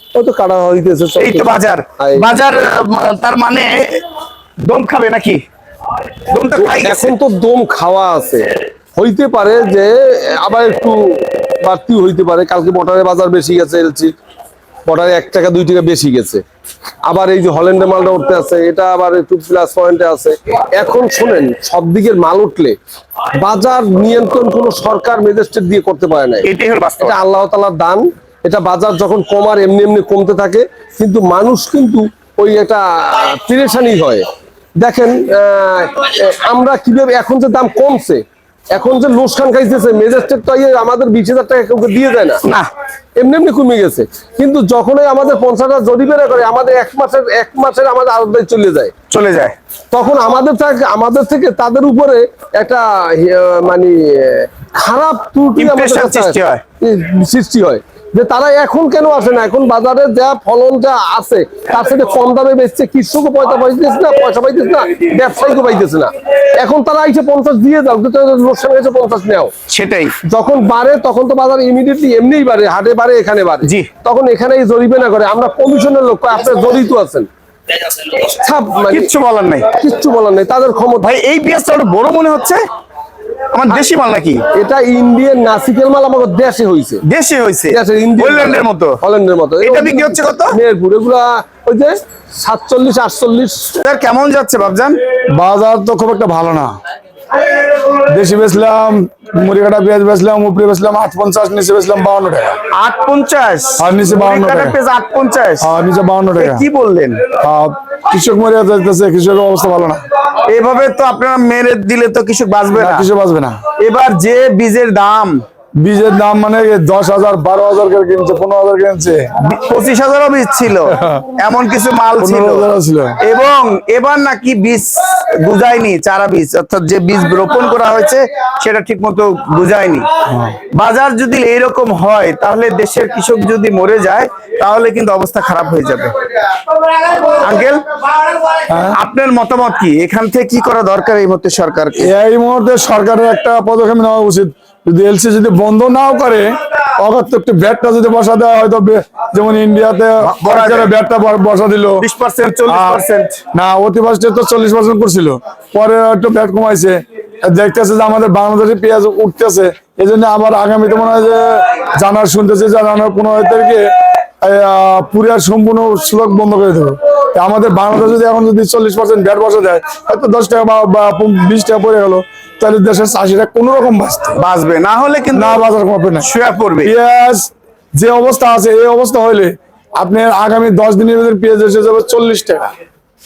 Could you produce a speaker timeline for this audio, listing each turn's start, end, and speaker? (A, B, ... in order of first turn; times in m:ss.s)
0:00.2-0:02.3 A
0:01.2-0:04.0 B
0:04.7-0:05.4 B
0:06.3-0:07.2 B
0:06.6-0:14.2 A
0:14.9-0:16.4 A
0:17.0-0:22.8 A
0:23.4-0:26.4 A
0:26.4-0:27.2 B
0:27.0-0:34.2 A
0:34.8-0:42.4 A
0:43.2-0:48.9 A
0:49.1-0:49.5 B
0:49.9-1:09.5 A
0:55.6-0:56.6 B
1:09.7-1:10.1 B
1:10.3-1:17.3 A
1:13.6-1:13.9 B
1:18.2-1:19.1 A
1:18.9-1:19.7 B
1:19.8-1:21.1 A
1:21.0-1:22.6 B
1:23.5-1:24.4 B
1:24.5-1:27.0 A
1:27.1-1:29.0 B
1:27.7-1:33.7 A
1:29.6-1:30.6 B
1:33.8-1:35.0 B
1:35.4-1:36.7 C
1:38.1-1:42.6 C
1:42.8-1:45.7 B
1:43.8-1:44.8 C
1:45.6-1:46.7 C
1:46.4-1:47.2 B
1:47.4-1:50.0 C
1:50.5-1:53.1 B
1:52.7-1:53.6 C
1:53.8-1:55.4 B
1:55.8-1:59.3 C
1:59.4-2:02.7 B
2:00.9-2:01.3 C
2:02.2-2:03.2 C
2:03.2-2:04.9 B
2:05.4-2:10.0 B
2:10.8-2:16.1 B
2:17.2-2:17.8 B
2:18.7-2:19.0 C
2:18.9-2:22.1 B
2:22.0-2:32.0 C
2:30.2-2:30.9 B
2:32.0-2:33.4 B
2:32.7-2:33.0 C
2:33.5-2:43.9 C
2:44.4-2:54.4 C
2:54.4-2:55.6 B
2:55.3-2:56.3 C
2:56.2-2:56.9 B
2:56.8-3:02.7 C